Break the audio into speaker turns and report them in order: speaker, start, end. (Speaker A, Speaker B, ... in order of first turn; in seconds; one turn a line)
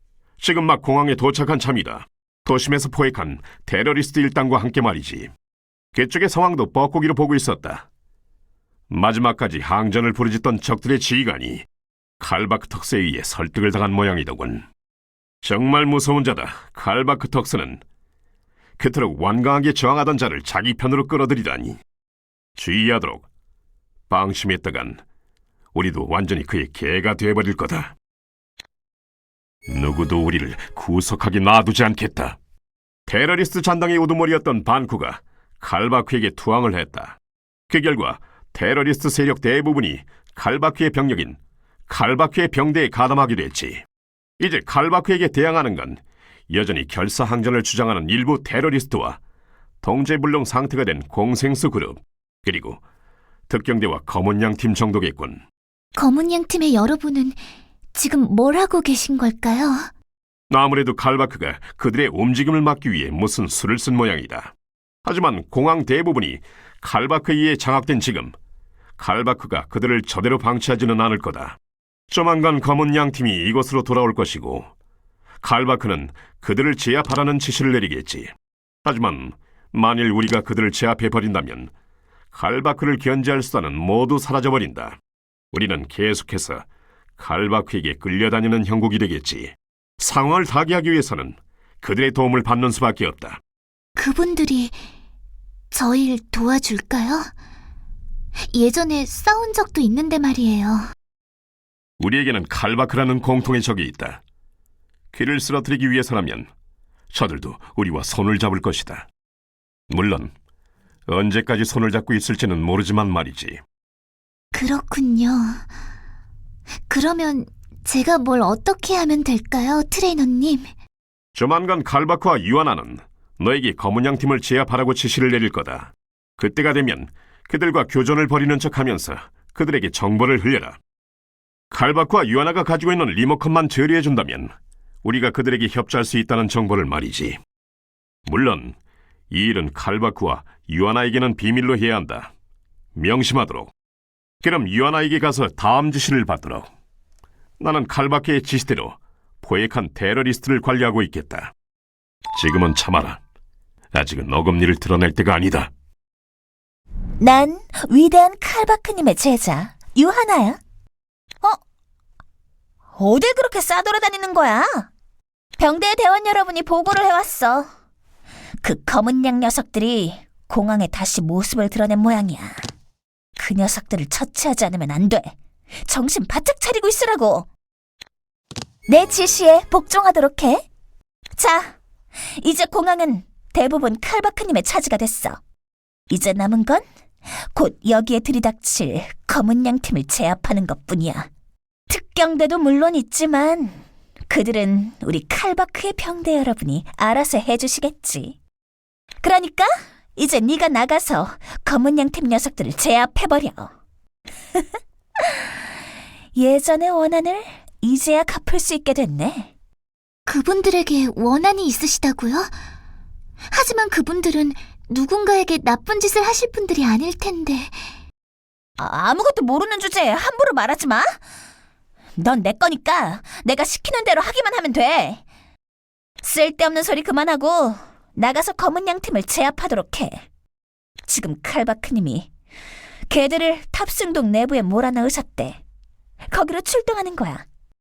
Speaker A: 0.4-5.3
Speaker A: 5.9-7.9
Speaker A: 8.9-11.7
Speaker A: 12.2-14.7
Speaker A: 15.4-17.8
Speaker A: 18.8-21.8
Speaker A: 22.6-23.3
Speaker A: 24.1-25.0
Speaker A: 25.7-27.9
Speaker A: 29.7-32.4
Speaker A: 33.1-37.2
Speaker A: 37.7-43.8
Speaker A: 44.4-49.2
Speaker A: 49.8-52.8
Speaker A: 53.5-55.4
Speaker B: 56.0-57.4
Speaker B: 57.9-59.9
Speaker A: 60.5-64.5
Speaker A: 65.0-68.3
Speaker A: 69.0-71.6
Speaker A: 72.1-74.7
Speaker A: 75.4-78.3
Speaker A: 78.8-81.7
Speaker A: 82.3-85.0
Speaker A: 85.5-86.6
Speaker A: 87.2-93.4
Speaker B: 94.0-94.8
Speaker B: 95.7-97.3
Speaker B: 98.5-100.9
Speaker A: 102.0-104.2
Speaker A: 105.1-106.5
Speaker A: 107.1-109.1
Speaker A: 109.9-110.3
Speaker A: 111.1-113.6
Speaker B: 114.5-115.6
Speaker B: 116.9-120.7
Speaker A: 121.3-130.8
Speaker A: 131.7-134.5
Speaker A: 135.0-137.4
Speaker A: 138.2-138.8
Speaker A: 139.3-142.3
Speaker A: 142.9-143.7
Speaker A: 144.4-146.7
Speaker A: 147.6-151.5
Speaker A: 152.3-153.2
Speaker A: 153.9-155.7
Speaker C: 157.2-160.6
Speaker C: 162.9-164.9
Speaker C: 165.6-167.7
Speaker C: 168.6-172.7
Speaker C: 173.4-177.5
Speaker C: 178.9-180.7
Speaker C: 181.3-181.8
Speaker C: 182.4-185.4
Speaker C: 186.1-186.8
Speaker C: 187.4-191.3
Speaker C: 191.9-198.4
Speaker C: 199.2-203.7
Speaker C: 205.2-205.5
Speaker C: 206.3-209.5
Speaker B: 210.2-212.5
Speaker B: 213.5-217.8
Speaker C: 218.8-221.2
Speaker C: 222.2-225.2
Speaker C: 226.2-230.2
Speaker C: 231.1-232.3
Speaker C: 233.1-235.6
Speaker C: 236.3-237.4